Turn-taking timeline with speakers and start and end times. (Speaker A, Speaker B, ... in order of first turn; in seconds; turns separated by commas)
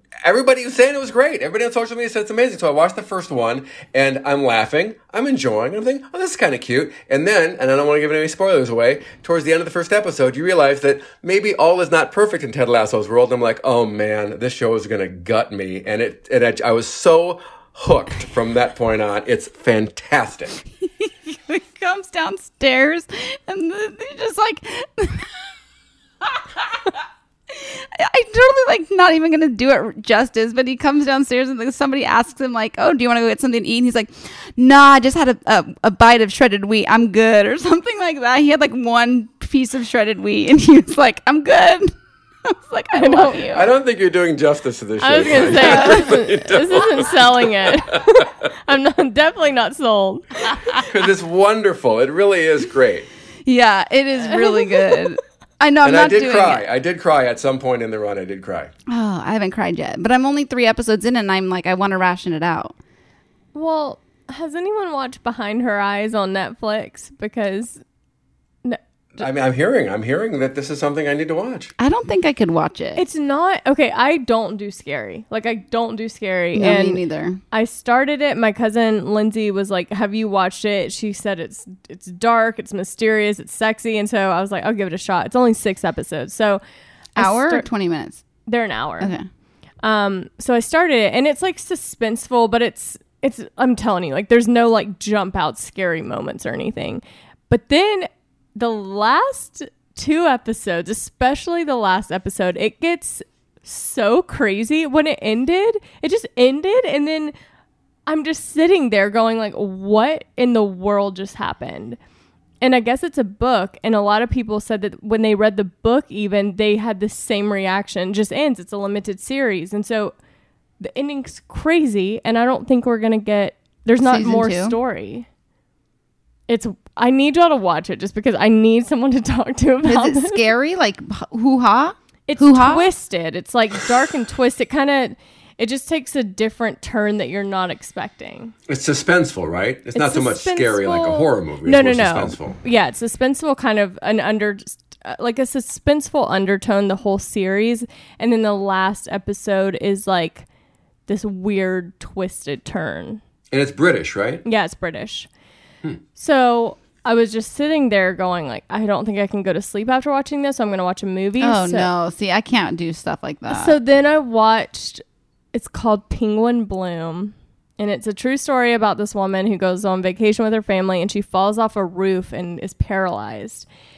Speaker A: 0.2-20.6, Speaker B: 21.0-25.3, Speaker B: 27.5-41.9, Speaker B: 42.5-43.6, Speaker C: 43.0-43.5, Speaker A: 43.5-48.3, Speaker C: 45.0-50.6, Speaker B: 45.6-45.9, Speaker A: 50.9-53.1, Speaker B: 53.5-56.6, Speaker C: 54.3-55.0, Speaker A: 55.8-58.7, Speaker B: 58.9-62.8, Speaker C: 63.5-67.8, Speaker C: 68.6-69.3, Speaker A: 69.2-71.7, Speaker B: 71.8-73.0, Speaker C: 73.0-86.6, Speaker B: 76.5-77.4, Speaker B: 87.2-88.2, Speaker C: 87.2-87.7, Speaker C: 88.5-89.1, Speaker B: 89.0-89.2, Speaker C: 89.8-107.3, Speaker C: 108.1-112.0, Speaker C: 112.6-120.2, Speaker C: 120.8-125.3, Speaker B: 124.0-124.8, Speaker C: 126.5-130.4, Speaker B: 129.9-132.9, Speaker C: 132.3-138.5, Speaker A: 138.7-142.6, Speaker C: 139.9-150.5, Speaker C: 151.1-153.2, Speaker A: 153.5-154.4, Speaker C: 154.4-155.3, Speaker C: 156.2-161.9, Speaker B: 161.4-163.8, Speaker C: 163.5-165.0, Speaker C: 165.5-173.7